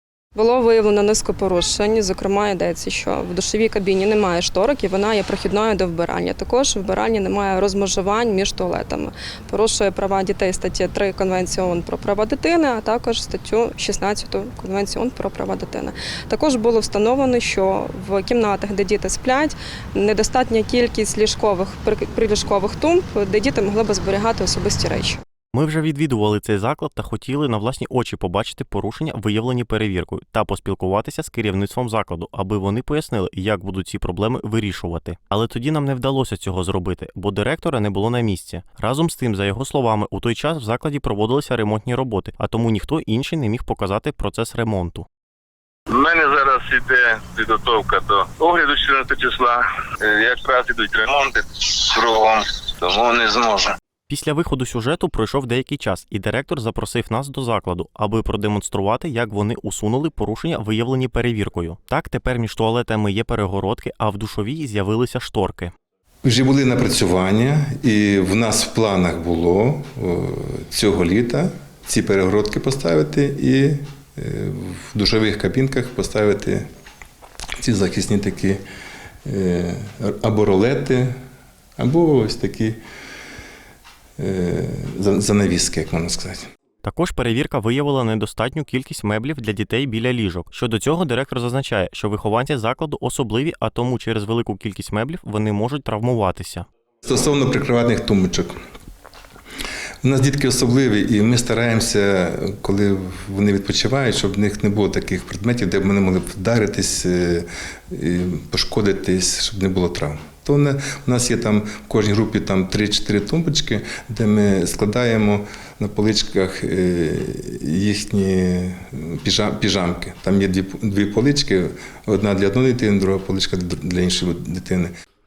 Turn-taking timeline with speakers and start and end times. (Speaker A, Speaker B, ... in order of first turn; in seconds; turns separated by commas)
Speaker A: 0.3-25.2, Speaker B: 25.5-45.0, Speaker C: 45.9-53.8, Speaker B: 54.1-65.7, Speaker D: 66.2-76.7, Speaker D: 77.6-78.6, Speaker D: 79.2-81.1, Speaker D: 81.8-82.8, Speaker D: 84.2-86.5, Speaker B: 86.8-96.7, Speaker D: 97.0-98.5, Speaker D: 100.0-124.9